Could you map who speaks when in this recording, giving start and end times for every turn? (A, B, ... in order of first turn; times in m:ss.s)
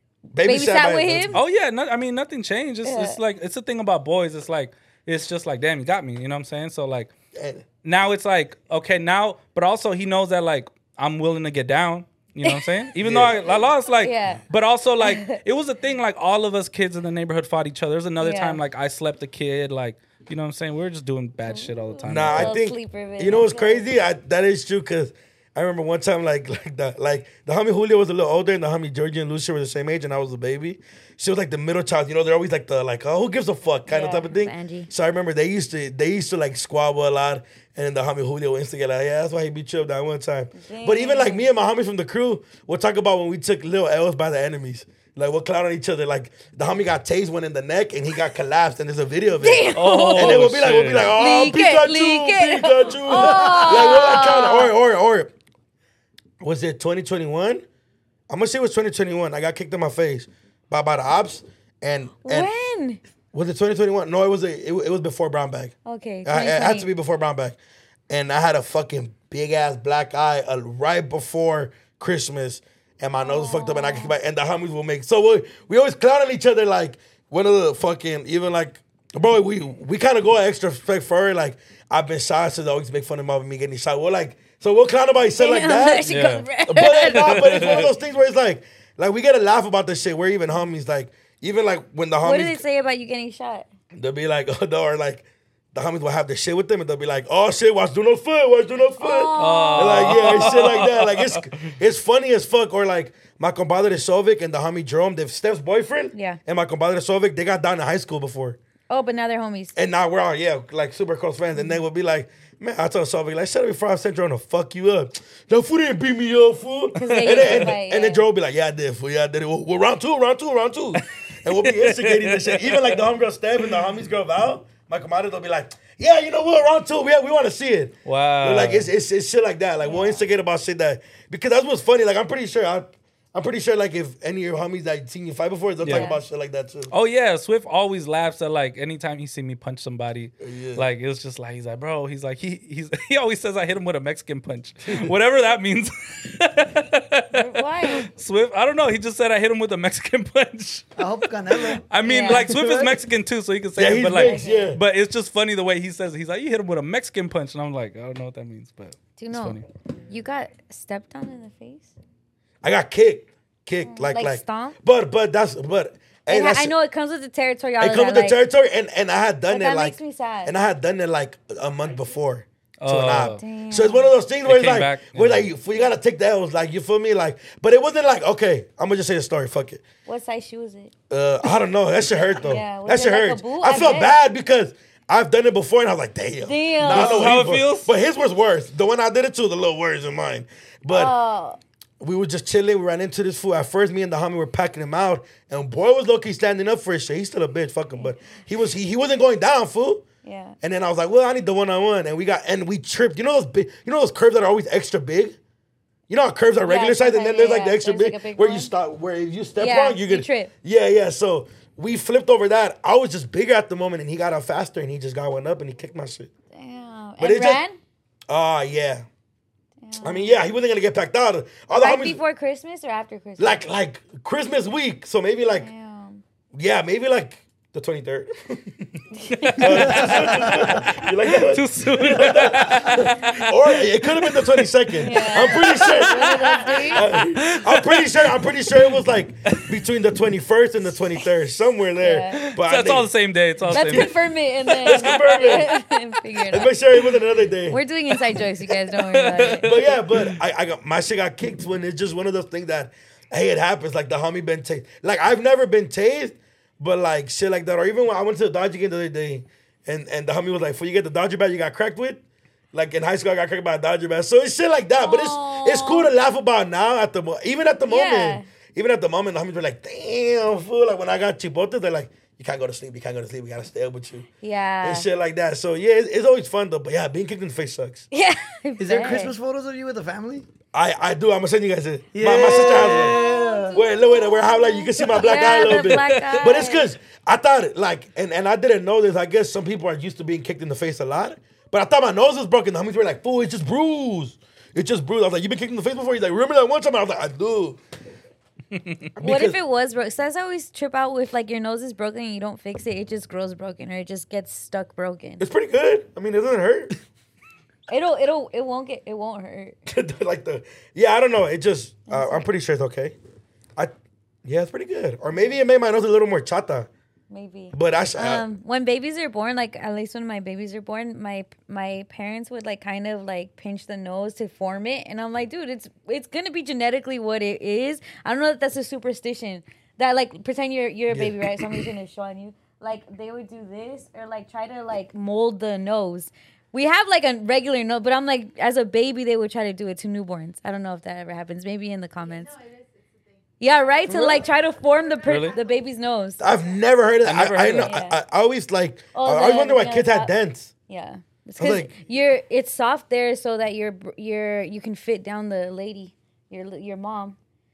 0:00.3-0:01.4 A
0:00.4-0:01.4 B
0:01.3-0:07.1 C
0:02.8-0:03.2 B
0:07.3-0:07.6 A
0:07.8-0:22.5 C
0:13.0-0:13.6 A
0:14.0-0:14.4 B
0:15.0-0:15.4 B
0:18.2-0:18.6 B
0:21.4-0:23.9 B
0:22.0-0:55.3 A
0:33.9-0:34.9 B
0:40.5-0:41.5 B
0:49.4-0:50.4 B
0:49.7-0:51.1 C
0:51.1-0:54.7 B
0:56.4-0:57.6 A
0:58.3-1:02.5 A
1:02.2-1:03.0 B
1:03.3-1:07.6 A
1:05.8-1:06.9 B
1:08.1-1:32.6 A
1:13.2-1:14.1 B
1:25.4-1:27.9 B
1:26.1-1:26.5 C
1:27.1-1:27.9 C
1:32.2-1:33.7 B
1:33.9-1:48.6 A
1:39.0-1:40.5 B
1:39.4-1:41.4 C
1:46.1-1:46.4 B
1:48.9-1:49.7 B
1:49.8-2:16.9 A
1:56.9-1:58.2 B
1:57.1-1:57.7 C
2:01.5-2:03.0 C
2:08.0-2:08.9 C
2:09.8-2:10.2 B
2:15.8-2:16.1 C
2:15.9-2:16.2 B
2:16.9-2:39.6 C
2:20.4-2:20.9 A
2:27.3-2:28.1 B
2:31.0-2:33.0 D
2:32.0-2:32.5 B
2:33.8-2:34.8 A
2:34.1-2:34.7 B
2:39.2-2:41.9 B
2:42.6-2:46.7 A
2:43.8-2:44.8 B
2:46.3-2:48.4 B
2:47.8-2:59.8 A
2:49.5-2:50.5 B
2:52.8-2:53.4 C
2:53.4-2:54.1 B
2:54.4-2:55.5 C
3:00.0-3:00.9 B
3:01.1-3:11.1 A
3:02.2-3:04.1 B
3:06.4-3:07.3 B
3:06.9-3:07.9 C
3:10.9-3:11.6 B
3:12.0-3:20.0 A
3:20.2-3:20.6 B
3:20.6-3:25.4 A
3:26.1-3:36.3 A
3:26.6-3:28.7 B
3:29.6-3:30.5 B
3:36.5-3:37.8 B
3:37.2-3:37.6 A
3:38.3-3:39.0 A
3:39.8-3:40.4 B
3:40.0-3:42.2 A
3:41.7-3:43.6 B
3:43.4-3:45.7 A
3:45.6-3:46.2 B
3:46.5-3:48.9 A
3:49.1-3:50.4 B
3:49.3-3:59.0 C
3:49.6-4:03.1 A
3:55.0-3:57.0 B
4:02.0-4:02.5 B
4:02.4-4:04.1 C
4:03.6-4:04.1 A
4:03.7-4:06.7 B
4:04.8-4:05.6 C
4:04.8-4:05.7 A
4:06.5-4:07.8 A
4:07.7-4:09.7 B
4:09.1-4:10.4 C
4:09.6-4:22.2 A
4:22.7-4:34.3 A
4:25.0-4:26.1 B
4:27.9-4:28.5 B
4:34.4-4:35.1 B
4:34.8-4:38.0 A
4:38.1-4:39.4 B
4:38.8-4:40.4 D
4:40.7-4:43.2 A
4:42.1-4:43.8 D
4:42.4-4:46.9 B
4:43.7-4:57.8 A
4:45.6-4:46.2 C
4:59.2-4:59.6 A
4:59.2-5:05.4 B
5:05.4-5:06.9 A
5:07.9-5:09.8 B
5:09.9-5:13.2 A
5:12.1-5:12.4 B
5:14.4-5:16.9 A
5:17.3-5:42.6 B
5:17.7-5:18.4 A
5:31.1-5:31.5 A
5:43.6-5:46.4 B
5:44.1-5:44.4 A
5:45.3-5:45.6 C
5:46.4-5:50.7 A
5:47.2-5:47.9 C
5:47.8-5:48.2 B
5:49.1-5:50.3 B
5:50.9-5:57.4 B
5:51.6-5:51.9 A